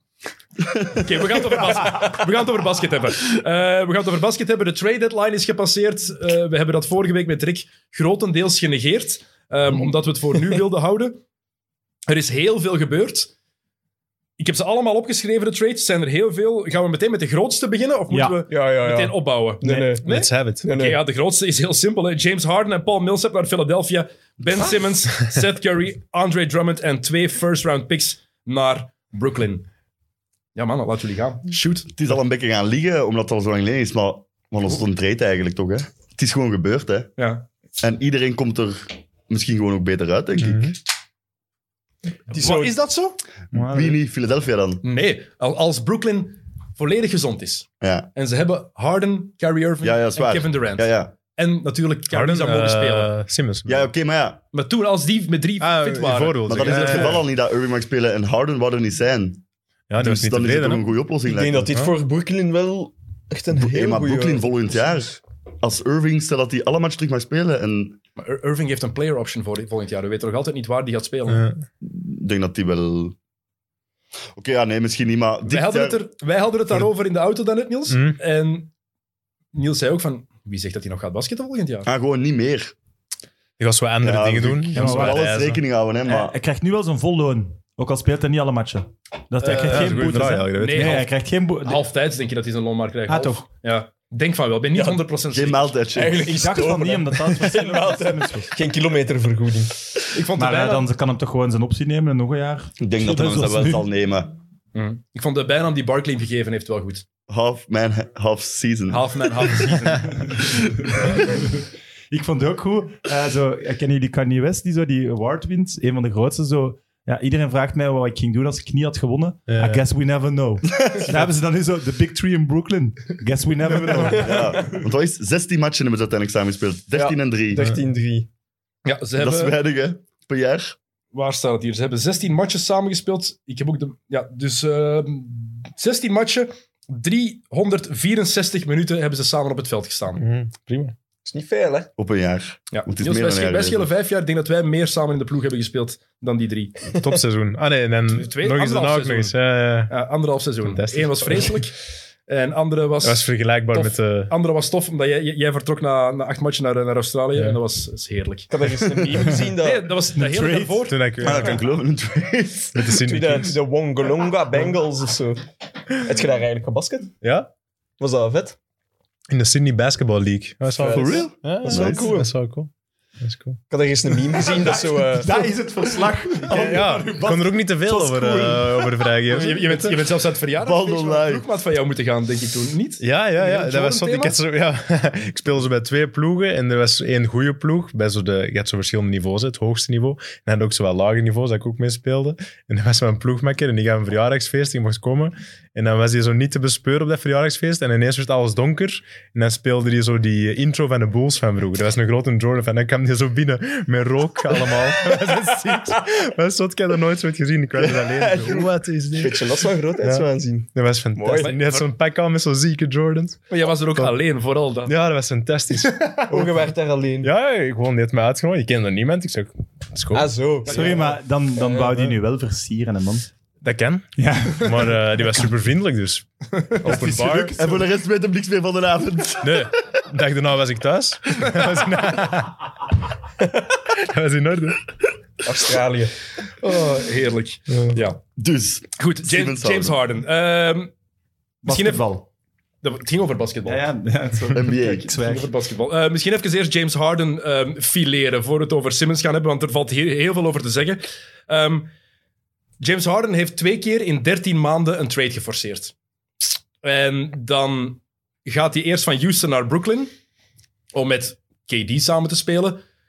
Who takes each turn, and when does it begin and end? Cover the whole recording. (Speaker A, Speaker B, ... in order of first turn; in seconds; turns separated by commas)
Speaker A: 0.7-1.7, Speaker B: 1.0-11.2, Speaker B: 12.1-13.3, Speaker B: 14.4-29.7, Speaker C: 18.1-18.4, Speaker D: 18.5-20.0, Speaker E: 20.1-20.7, Speaker D: 20.6-21.0, Speaker B: 30.6-31.9, Speaker A: 31.9-37.1, Speaker B: 37.2-37.5, Speaker A: 37.8-40.8, Speaker E: 40.4-40.7, Speaker D: 42.3-42.8, Speaker B: 42.3-43.2, Speaker C: 43.5-44.0, Speaker A: 43.5-44.8, Speaker B: 44.8-53.1, Speaker A: 47.8-48.1, Speaker A: 49.8-51.1, Speaker E: 52.1-53.9, Speaker A: 53.7-54.4, Speaker B: 54.5-57.2, Speaker E: 55.6-57.3, Speaker A: 56.5-59.4, Speaker E: 59.9-60.9, Speaker A: 60.0-61.7, Speaker D: 61.2-64.5, Speaker A: 63.5-68.0, Speaker B: 68.2-71.4, Speaker E: 71.3-71.7, Speaker A: 71.8-73.2, Speaker A: 74.4-76.0, Speaker B: 75.5-78.7, Speaker E: 77.9-78.2, Speaker B: 79.5-81.9, Speaker A: 81.9-82.7, Speaker E: 83.6-85.6, Speaker A: 84.0-86.4, Speaker C: 84.7-85.3, Speaker C: 86.0-91.8, Speaker B: 89.4-91.1, Speaker E: 89.4-91.0, Speaker B: 91.6-95.9, Speaker C: 93.1-93.5, Speaker D: 94.7-95.1, Speaker A: 95.3-96.4, Speaker D: 95.9-99.9, Speaker C: 96.3-98.5, Speaker B: 100.1-100.9, Speaker C: 100.4-103.9, Speaker A: 102.8-104.3, Speaker B: 104.7-107.0, Speaker A: 107.3-109.7, Speaker B: 108.9-110.3, Speaker C: 110.4-124.6, Speaker A: 111.0-111.2, Speaker E: 119.5-119.8, Speaker D: 123.9-124.2, Speaker A: 124.1-127.6, Speaker D: 126.9-128.3, Speaker B: 128.8-129.6, Speaker A: 129.2-130.8, Speaker B: 131.1-140.2, Speaker E: 140.2-140.9, Speaker D: 141.3-141.9, Speaker A: 142.0-143.9, Speaker B: 142.7-147.0, Speaker E: 147.0-149.9, Speaker B: 148.1-149.4, Speaker B: 149.9-158.5, Speaker E: 150.7-151.6, Speaker E: 153.0-154.3, Speaker D: 158.5-160.0, Speaker B: 159.6-161.2, Speaker C: 160.2-160.9, Speaker E: 160.9-161.7, Speaker A: 161.2-162.9, Speaker E: 162.8-163.6, Speaker D: 163.0-167.2, Speaker E: 167.2-167.5, Speaker D: 168.0-168.6, Speaker E: 169.3-173.6, Speaker D: 170.7-172.3, Speaker A: 170.9-172.1, Speaker D: 173.7-175.3, Speaker C: 175.1-177.5, Speaker D: 176.4-178.9, Speaker E: 176.5-179.9, Speaker C: 178.1-178.5, Speaker B: 179.3-184.3, Speaker A: 180.6-181.5, Speaker E: 183.0-214.1, Speaker D: 207.8-211.6, Speaker B: 213.5-214.9, Speaker E: 214.9-216.6, Speaker D: 216.3-217.3, Speaker E: 217.2-220.3, Speaker D: 220.1-222.0, Speaker C: 220.7-223.3, Speaker B: 220.7-221.0, Speaker E: 223.6-227.5, Speaker C: 224.2-225.0, Speaker C: 226.8-227.9, Speaker A: 227.6-229.7, Speaker E: 229.4-232.7, Speaker E: 233.8-234.8, Speaker D: 235.4-236.1, Speaker B: 236.6-238.2, Speaker E: 237.7-238.0, Speaker A: 238.4-240.0, Speaker B: 239.0-240.9, Speaker C: 241.6-242.3, Speaker B: 241.7-242.1, Speaker B: 242.8-243.9, Speaker C: 243.7-245.5, Speaker A: 244.5-245.1, Speaker B: 244.8-251.9, Speaker B: 252.8-255.9, Speaker B: 256.8-260.1, Speaker B: 260.9-262.8